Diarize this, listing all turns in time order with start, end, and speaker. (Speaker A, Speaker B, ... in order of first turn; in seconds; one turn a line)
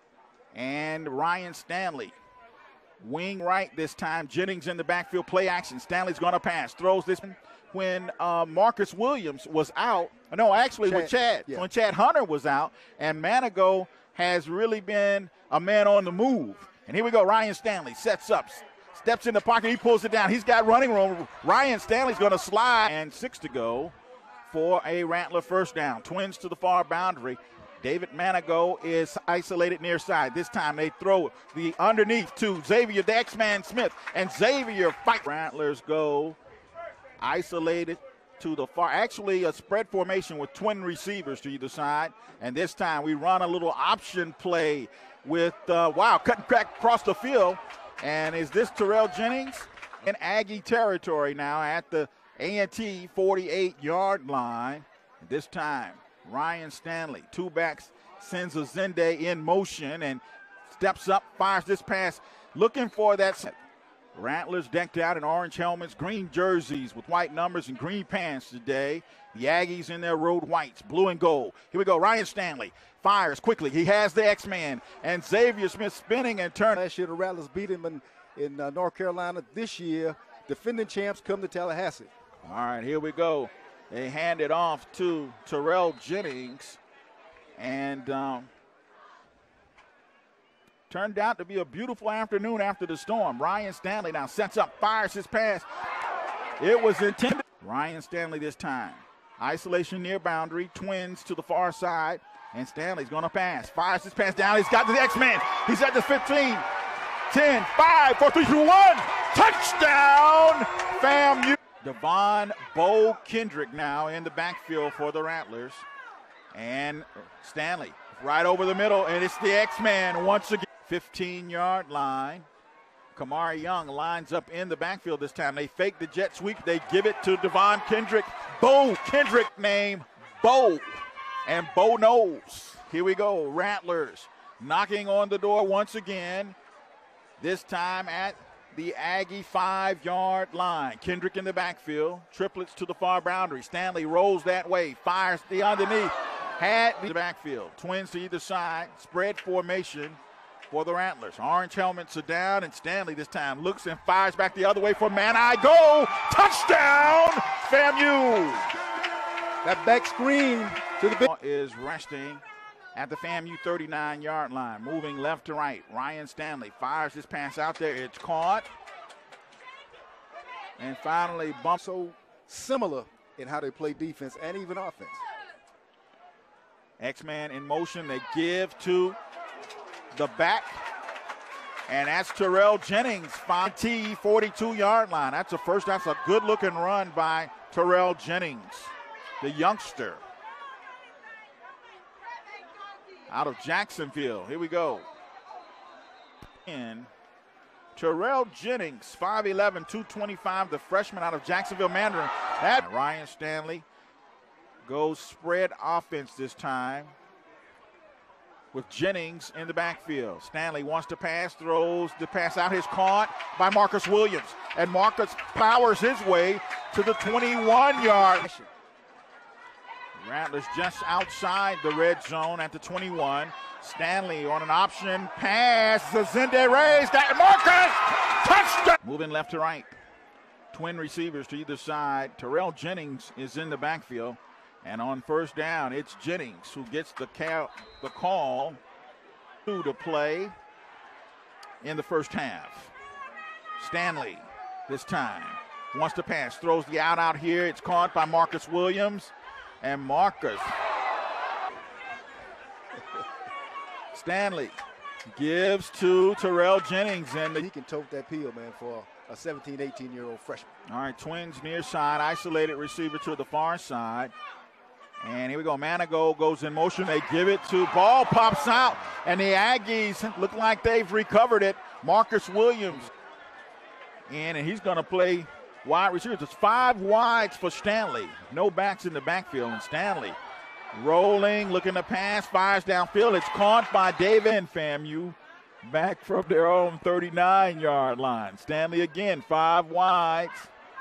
Speaker A: 0.5-2.2
Speaker A: 3.0-23.9
Speaker B: 10.8-11.7
Speaker A: 24.5-36.4
Speaker A: 37.2-63.5
Speaker A: 64.1-76.8
Speaker B: 76.8-82.1
Speaker A: 82.4-86.8
Speaker A: 87.6-88.5
Speaker A: 90.9-95.7
Speaker A: 96.6-106.7
Speaker A: 107.3-115.9
Speaker A: 116.5-122.5
Speaker A: 123.1-136.6
Speaker A: 137.4-150.2
Speaker A: 150.7-158.7
Speaker B: 159.6-161.3
Speaker A: 161.2-162.4
Speaker A: 162.9-168.7
Speaker A: 170.8-171.8
Speaker B: 171.8-175.2
Speaker A: 177.0-179.2
Speaker A: 180.1-180.8
Speaker A: 181.9-190.2
Speaker A: 193.3-195.1
Speaker A: 196.7-197.1
Speaker A: 197.9-203.9
Speaker A: 204.8-207.1
Speaker A: 208.7-218.5
Speaker B: 218.3-218.7
Speaker A: 220.2-229.9
Speaker A: 230.7-238.8
Speaker A: 239.7-240.6
Speaker A: 241.8-242.9
Speaker A: 243.8-250.7
Speaker A: 254.1-254.8
Speaker A: 255.3-257.7
Speaker B: 257.6-260.7
Speaker A: 260.9-264.3
Speaker A: 265.2-273.1
Speaker A: 274.3-280.4
Speaker A: 280.9-290.7